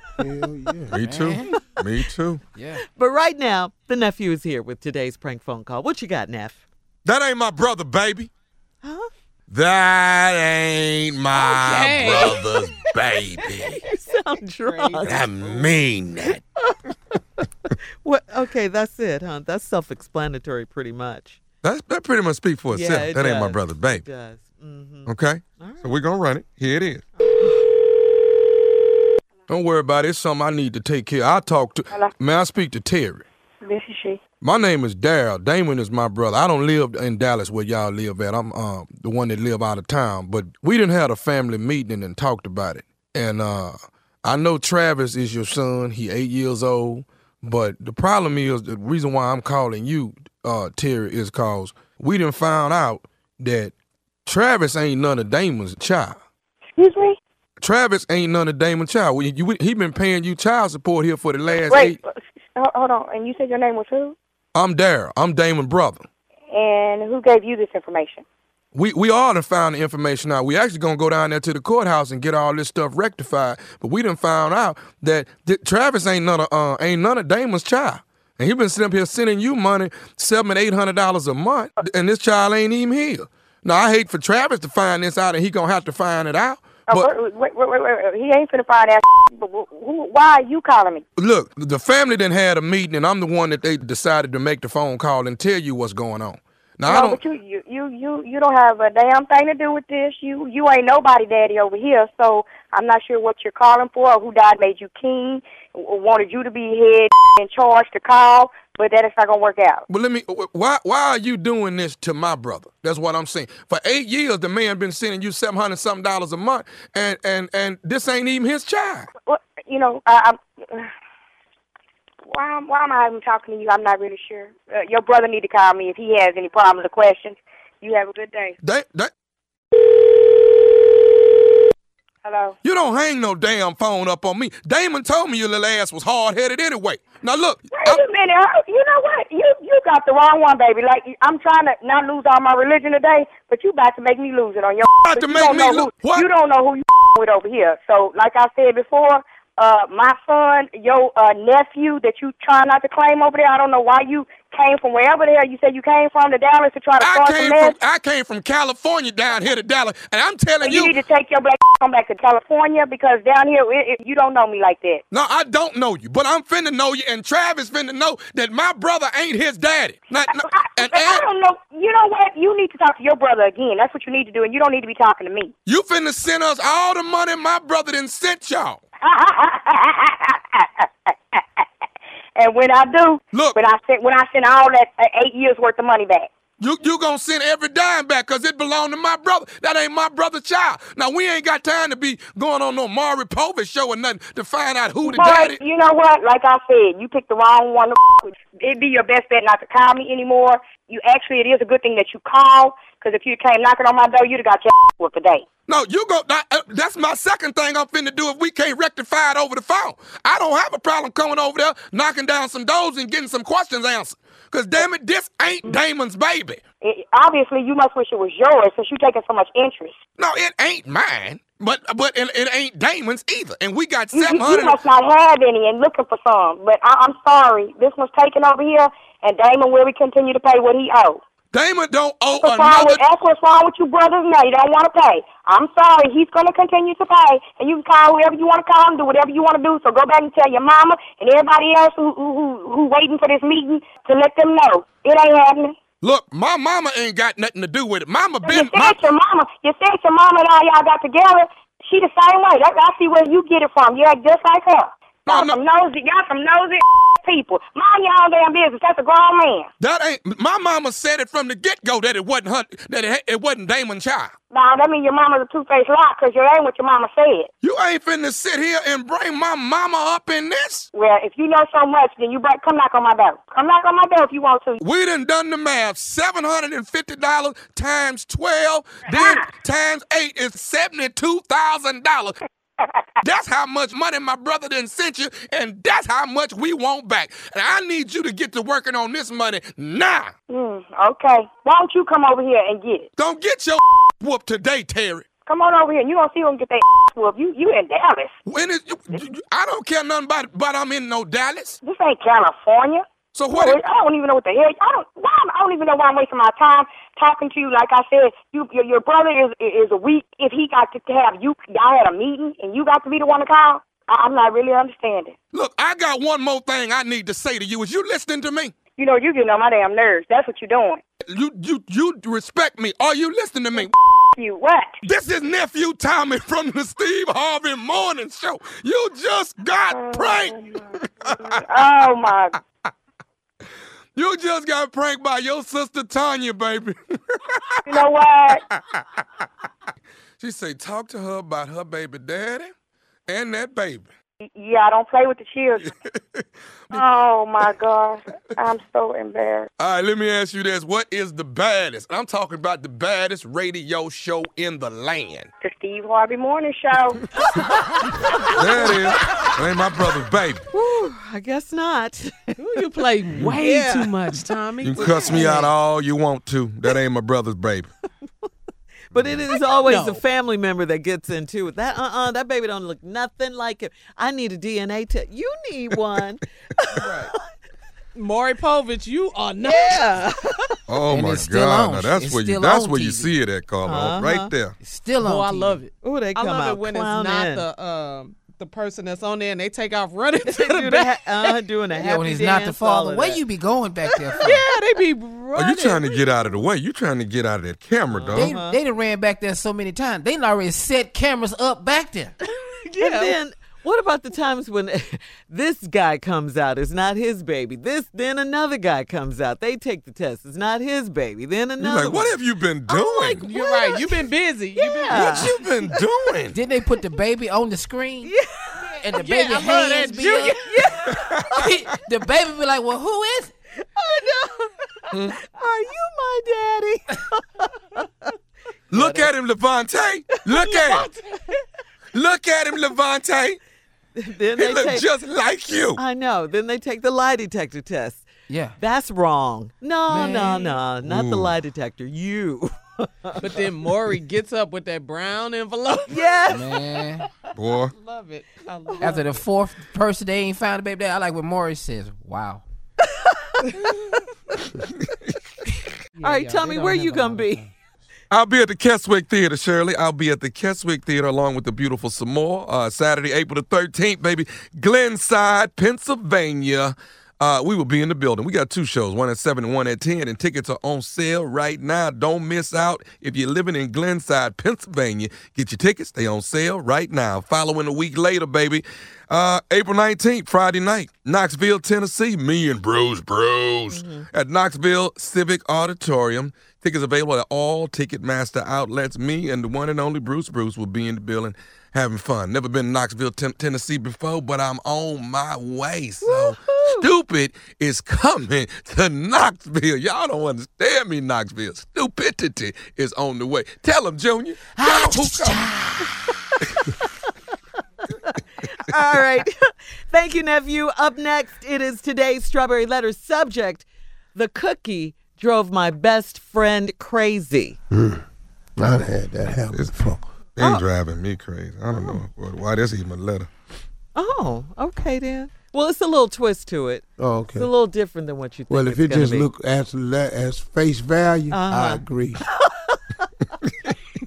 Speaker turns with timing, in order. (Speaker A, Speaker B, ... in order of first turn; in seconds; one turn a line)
Speaker A: 0.2-1.0
Speaker B: 0.9-2.4
Speaker C: 1.0-1.5
Speaker C: 2.5-2.8
Speaker D: 2.9-6.6
Speaker B: 7.0-8.3
Speaker D: 8.8-9.1
Speaker B: 9.5-13.7
Speaker E: 11.3-12.9
Speaker D: 13.6-15.3
Speaker E: 14.6-15.7
Speaker B: 15.1-16.4
Speaker D: 18.0-21.4
Speaker B: 21.6-24.1
Speaker D: 22.7-25.9
Speaker B: 25.1-27.0
Speaker D: 27.2-27.5
Speaker B: 29.5-33.3
Speaker F: 33.6-34.2
Speaker B: 34.4-53.7
Speaker B: 54.3-56.2
Speaker F: 56.8-57.2
Speaker B: 57.6-62.0
Speaker F: 61.7-64.2
Speaker B: 64.5-66.1
Speaker F: 66.5-68.2
Speaker B: 68.7-87.1
Speaker F: 86.9-91.0
Speaker B: 91.2-97.2
Speaker F: 96.8-109.9
Speaker B: 109.9-119.1
Speaker F: 119.3-120.9
Speaker F: 122.3-128.6
Speaker B: 128.6-129.1
Speaker F: 132.2-132.6
Speaker B: 132.6-138.0
Speaker F: 137.7-157.8
Speaker B: 144.9-146.3
Speaker B: 157.0-161.0
Speaker F: 160.6-165.0
Speaker B: 165.1-171.2
Speaker F: 170.5-175.5
Speaker B: 175.7-178.8
Speaker F: 179.0-181.7
Speaker F: 182.4-186.3
Speaker B: 183.3-183.6
Speaker B: 186.6-195.6
Speaker F: 195.0-205.4
Speaker B: 205.7-216.6
Speaker F: 216.8-220.0
Speaker B: 220.2-224.8
Speaker F: 224.1-231.2
Speaker B: 231.5-233.0
Speaker F: 232.4-245.8
Speaker B: 246.0-249.0
Speaker F: 248.4-259.7
Speaker B: 255.3-255.6
Speaker B: 259.8-264.3
Speaker F: 264.5-267.5
Speaker B: 267.6-270.9
Speaker F: 270.9-274.8
Speaker B: 274.8-282.4
Speaker F: 279.1-279.5
Speaker B: 283.2-290.3
Speaker F: 290.5-293.1
Speaker B: 293.2-295.2
Speaker F: 295.5-298.3
Speaker B: 298.5-301.8
Speaker F: 301.8-315.3
Speaker B: 303.3-303.8
Speaker B: 315.5-318.7
Speaker F: 319.0-321.0
Speaker B: 321.2-323.9
Speaker F: 323.8-325.0
Speaker B: 325.0-331.6
Speaker F: 329.9-332.6
Speaker B: 334.1-337.0
Speaker B: 337.5-338.0
Speaker F: 337.9-338.6
Speaker B: 338.5-339.2
Speaker B: 340.4-342.7
Speaker B: 343.3-344.1
Speaker F: 344.6-345.9
Speaker B: 345.9-347.0
Speaker F: 346.9-349.7
Speaker B: 349.8-355.5
Speaker F: 355.6-357.2
Speaker B: 358.5-360.6
Speaker D: 360.7-362.8
Speaker E: 362.6-365.7
Speaker D: 363.4-364.2
Speaker B: 364.8-367.9
Speaker D: 365.0-365.7
Speaker D: 369.1-377.4
Speaker E: 369.7-370.2
Speaker E: 376.9-377.3
Speaker E: 378.1-380.3
Speaker D: 379.6-380.7
Speaker B: 380.9-384.8
Speaker C: 381.1-383.3
Speaker D: 383.8-384.5
Speaker C: 384.8-385.9
Speaker E: 385.2-391.6
Speaker D: 386.0-387.6
Speaker D: 390.4-393.4
Speaker C: 392.0-394.6
Speaker E: 394.3-396.4
Speaker D: 394.4-394.6
Speaker B: 395.6-398.5
Speaker D: 398.1-398.8
Speaker C: 398.3-402.4
Speaker E: 402.7-403.4
Speaker D: 403.0-412.4
Speaker B: 411.8-413.5
Speaker D: 412.9-415.6
Speaker E: 413.0-415.6
Speaker B: 415.1-416.6
Speaker C: 416.5-418.3
Speaker D: 418.2-418.9
Speaker E: 418.8-420.9
Speaker C: 419.0-420.6
Speaker D: 420.4-421.7
Speaker C: 421.6-423.5
Speaker D: 423.8-428.3
Speaker B: 428.9-431.1
Speaker D: 428.9-429.3
Speaker E: 430.9-431.3
Speaker B: 432.1-433.6
Speaker D: 434.2-435.1
Speaker B: 434.6-436.0
Speaker D: 436.0-438.2
Speaker C: 438.5-438.8
Speaker D: 438.8-443.7
Speaker C: 440.1-440.6
Speaker E: 440.2-440.8
Speaker B: 441.1-441.5
Speaker E: 443.4-446.4
Speaker D: 446.1-446.8
Speaker C: 446.5-447.3
Speaker B: 447.6-447.9
Speaker E: 447.7-449.4
Speaker D: 448.9-449.2
Speaker C: 449.0-452.6
Speaker E: 456.2-457.3
Speaker D: 456.2-457.7
Speaker C: 456.9-457.5
Speaker B: 458.3-505.5
Speaker D: 483.9-484.3
Speaker D: 496.2-497.0
Speaker D: 504.8-507.1
Speaker C: 504.8-506.1
Speaker D: 508.0-517.8
Speaker A: 517.9-518.2
Speaker A: 518.8-520.2
Speaker B: 520.6-523.5
Speaker D: 520.6-520.9
Speaker D: 524.1-529.5
Speaker A: 527.2-527.7
Speaker A: 528.7-532.4
Speaker D: 531.5-532.0
Speaker D: 532.6-533.3